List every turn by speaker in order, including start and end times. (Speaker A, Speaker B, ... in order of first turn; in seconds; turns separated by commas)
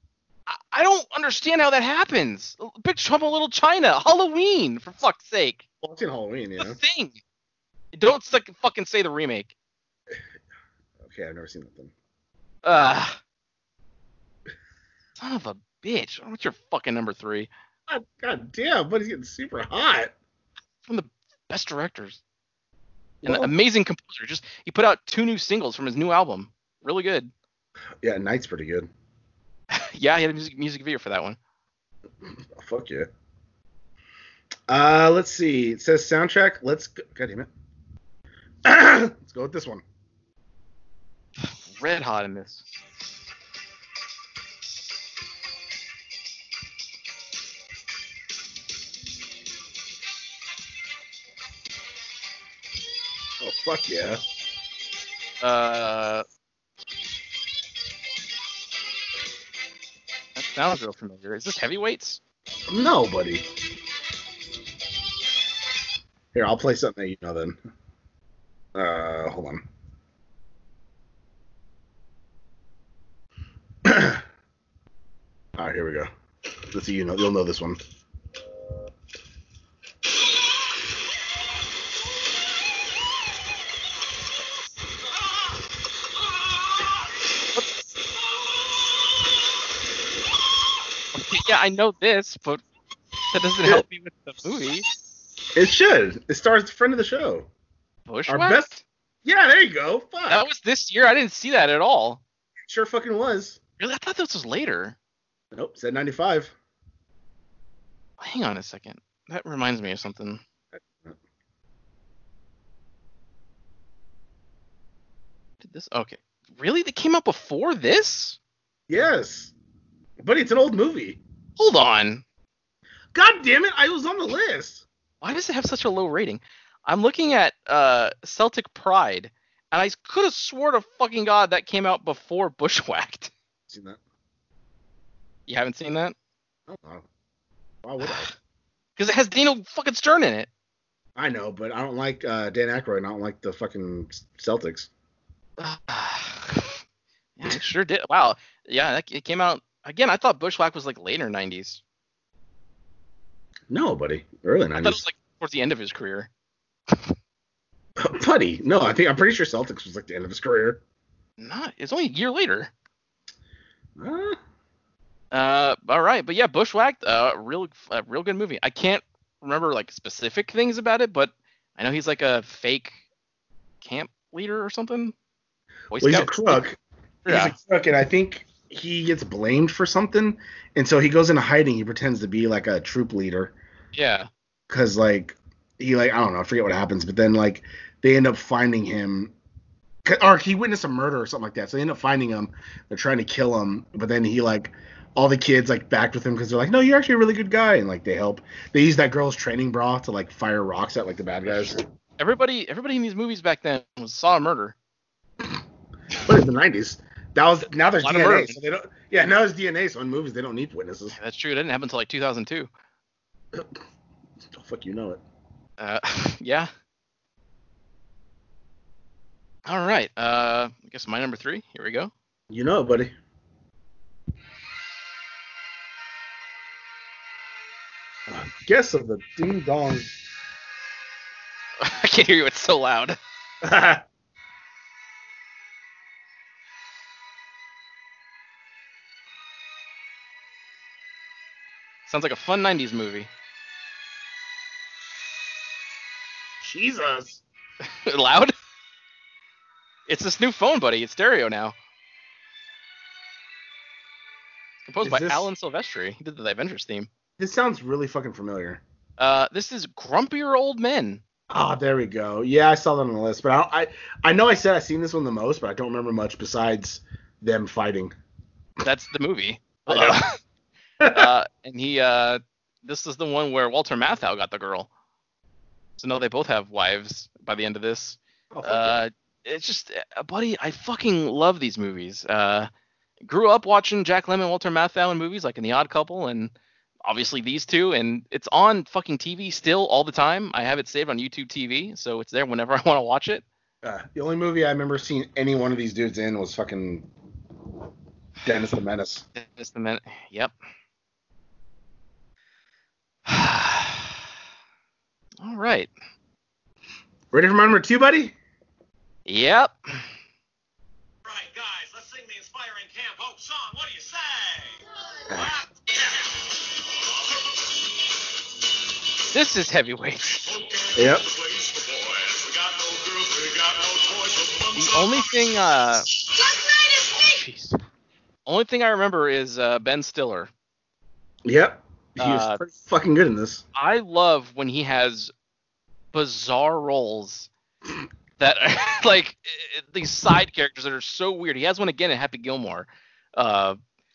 Speaker A: 0.5-5.6, Speaker B: 5.8-6.8, Speaker A: 6.6-7.2, Speaker A: 7.9-9.5, Speaker B: 11.0-11.9, Speaker A: 12.6-13.2, Speaker A: 15.2-17.5, Speaker B: 17.9-20.1, Speaker A: 20.9-22.2, Speaker B: 23.2-23.5, Speaker A: 23.2-27.3, Speaker B: 28.0-28.9, Speaker A: 29.7-31.4, Speaker B: 32.5-33.1, Speaker B: 34.7-37.5, Speaker B: 38.6-39.8, Speaker A: 41.7-42.6, Speaker B: 53.4-54.2, Speaker A: 55.4-56.2, Speaker A: 60.4-62.2, Speaker B: 62.7-63.4, Speaker B: 66.3-67.6, Speaker B: 68.7-69.7, Speaker B: 73.8-74.2, Speaker B: 75.6-76.1, Speaker B: 76.7-77.8, Speaker A: 91.1-92.6, Speaker A: 93.3-94.8, Speaker B: 95.5-97.5, Speaker A: 98.1-98.8, Speaker B: 98.3-98.7, Speaker B: 99.2-100.4, Speaker A: 100.3-102.2, Speaker B: 102.7-103.6, Speaker A: 103.8-105.0, Speaker B: 105.5-106.5, Speaker A: 108.2-110.4, Speaker B: 110.8-111.2, Speaker A: 115.6-118.4, Speaker B: 118.9-119.5, Speaker B: 120.2-121.2, Speaker A: 121.6-122.2, Speaker B: 123.1-124.8, Speaker A: 125.2-133.3, Speaker B: 133.7-134.0, Speaker A: 135.5-136.1, Speaker B: 136.7-137.1, Speaker B: 137.8-138.3, Speaker A: 138.0-138.3, Speaker A: 139.0-140.5, Speaker B: 141.2-144.9, Speaker A: 145.6-146.8, Speaker A: 147.4-151.8, Speaker B: 153.7-155.0, Speaker A: 154.8-156.3, Speaker B: 158.0-160.8, Speaker A: 161.4-162.7, Speaker B: 164.0-164.4, Speaker A: 165.3-173.0, Speaker A: 173.8-175.1, Speaker A: 175.9-176.6, Speaker B: 176.0-183.5, Speaker A: 177.2-177.5, Speaker A: 183.9-184.3, Speaker B: 184.7-189.3, Speaker B: 190.0-201.8, Speaker A: 201.5-204.7, Speaker B: 206.2-211.2, Speaker A: 208.0-208.6, Speaker A: 211.1-212.7, Speaker B: 214.5-215.2, Speaker A: 215.8-216.7, Speaker A: 219.7-222.1, Speaker B: 222.5-223.1, Speaker B: 228.3-230.1, Speaker A: 231.8-233.2, Speaker B: 233.6-234.0, Speaker A: 242.1-243.3, Speaker B: 246.6-247.4, Speaker A: 247.8-248.5, Speaker A: 250.1-251.8, Speaker A: 254.8-257.1, Speaker B: 255.0-255.5, Speaker B: 257.4-258.8, Speaker A: 259.2-261.2, Speaker B: 261.5-268.1, Speaker A: 268.8-270.4, Speaker B: 269.9-270.2, Speaker B: 271.0-271.3, Speaker A: 271.1-274.9, Speaker A: 276.0-282.7, Speaker B: 278.5-279.0, Speaker A: 283.2-286.5, Speaker A: 287.0-293.4, Speaker B: 293.8-297.1, Speaker B: 298.4-299.2, Speaker A: 299.4-300.5, Speaker A: 303.3-304.2, Speaker A: 305.4-305.9, Speaker B: 307.3-308.3, Speaker A: 309.2-309.7, Speaker C: 311.2-314.8, Speaker C: 315.3-316.3, Speaker A: 319.3-320.4, Speaker C: 320.5-325.3, Speaker B: 320.9-321.2, Speaker A: 324.7-326.1, Speaker A: 327.2-327.8, Speaker A: 328.4-330.5, Speaker B: 331.4-333.6, Speaker A: 332.2-332.6, Speaker A: 333.7-335.3, Speaker A: 336.1-337.5, Speaker A: 338.4-343.8